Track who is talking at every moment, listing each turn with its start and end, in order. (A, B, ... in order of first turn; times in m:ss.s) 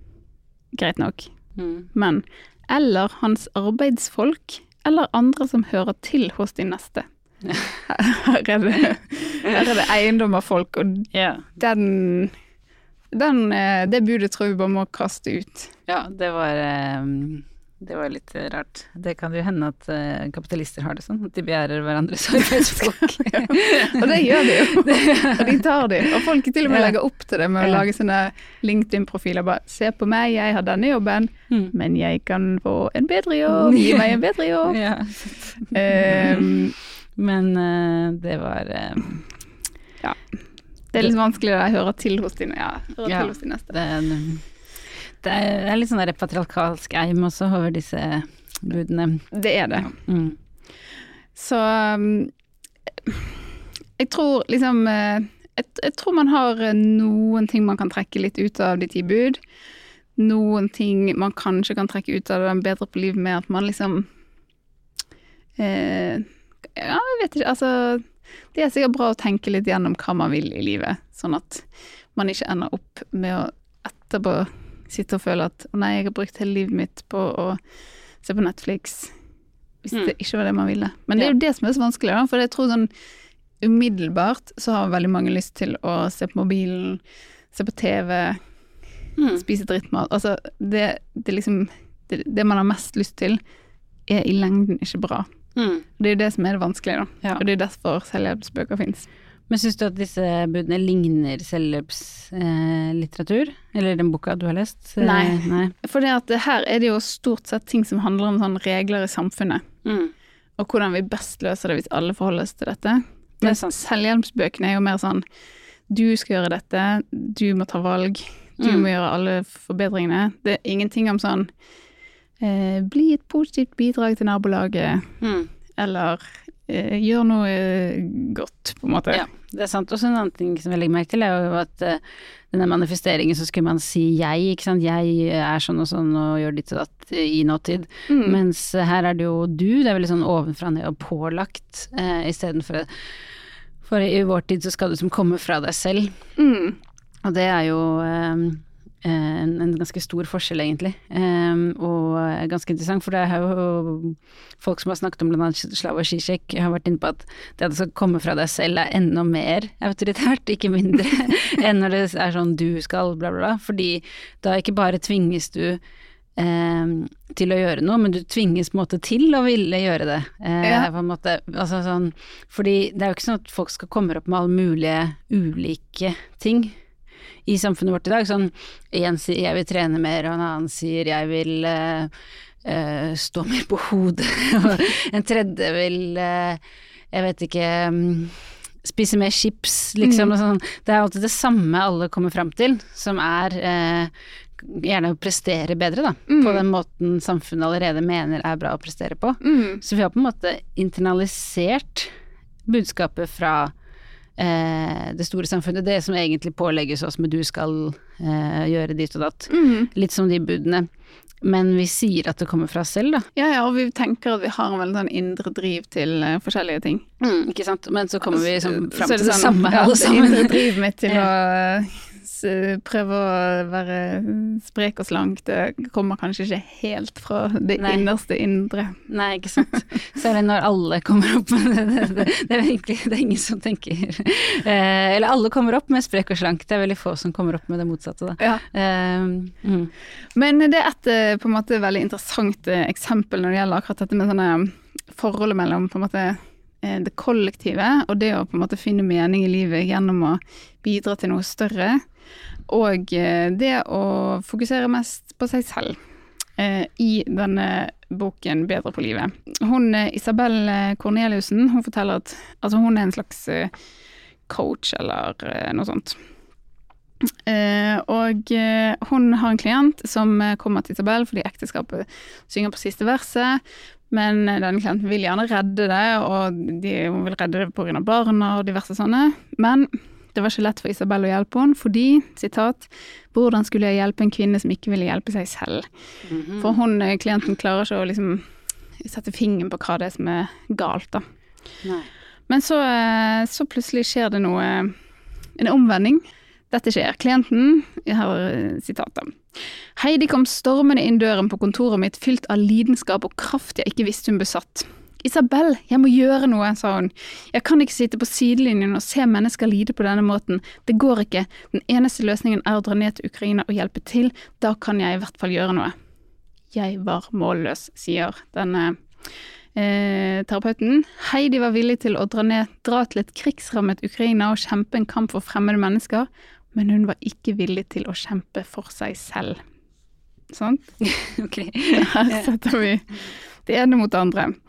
0:00.7-0:01.3 A
0:01.6-0:01.8 B
0:01.9-0:07.0 A
0:07.8-0:12.3 A
0:11.1-0:11.4 B
0:13.1-0:15.7 A
0:15.9-0:26.1 B
0:23.2-0:34.8 A
0:26.6-0:26.9 B
0:33.5-0:36.6 B
0:35.7-0:36.7 A
0:37.2-0:39.2 B
0:40.9-0:43.8 A
0:43.0-0:44.4 B
0:45.2-0:50.4 B
0:49.3-0:49.9 A
0:51.3-0:52.3 A
0:53.0-0:53.4 A
0:54.0-0:59.4 A
1:00.2-1:04.1 A
1:05.6-1:17.6 A
1:18.2-1:19.1 A
1:19.8-1:22.9 A
1:23.6-1:27.0 A
1:27.5-1:28.4 A
1:29.2-1:29.4 B
1:29.3-1:33.4 A
1:34.1-1:35.3 A
1:35.5-1:35.8 B
1:36.0-1:39.1 A
1:39.5-1:45.7 B
1:45.0-1:49.7 A
1:49.8-1:50.1 B
1:50.6-1:55.2 A
1:53.4-1:53.8 B
1:55.9-2:01.5 A
1:58.6-1:58.9 B
2:02.4-2:05.1 A
2:05.2-2:05.5 B
2:05.8-2:09.2 A
2:09.1-2:22.9 B
2:18.1-2:18.4 A
2:23.8-2:26.1 B
2:26.4-2:26.8 A
2:27.2-2:45.8 B
2:46.4-2:56.8 B
2:50.6-2:50.9 A
2:57.4-3:02.1 B
3:02.6-3:06.6 B
3:07.1-3:22.1 B
3:10.0-3:10.3 A
3:16.3-3:16.6 A
3:19.4-3:19.8 A
3:22.6-3:23.7 B
3:24.4-3:30.9 B
3:29.5-3:29.9 A
3:31.4-3:33.3 B
3:33.4-3:37.1 A
3:37.2-3:41.3 B
3:38.4-3:49.0 A
3:47.8-3:48.1 B
3:49.1-3:59.9 B
4:00.3-4:12.0 A
4:12.7-4:16.0 A
4:16.6-4:23.7 A
4:24.5-4:26.2 A
4:27.4-4:45.8 A
4:46.2-4:46.7 B
4:46.6-4:48.4 A
4:49.0-4:51.2 A
4:51.8-4:52.1 B
4:52.5-4:55.0 A
4:55.6-5:15.9 A
5:16.7-5:19.0 A
5:19.8-5:29.6 A
5:30.5-5:30.8 A
5:31.0-5:32.5 B
5:31.9-5:34.6 A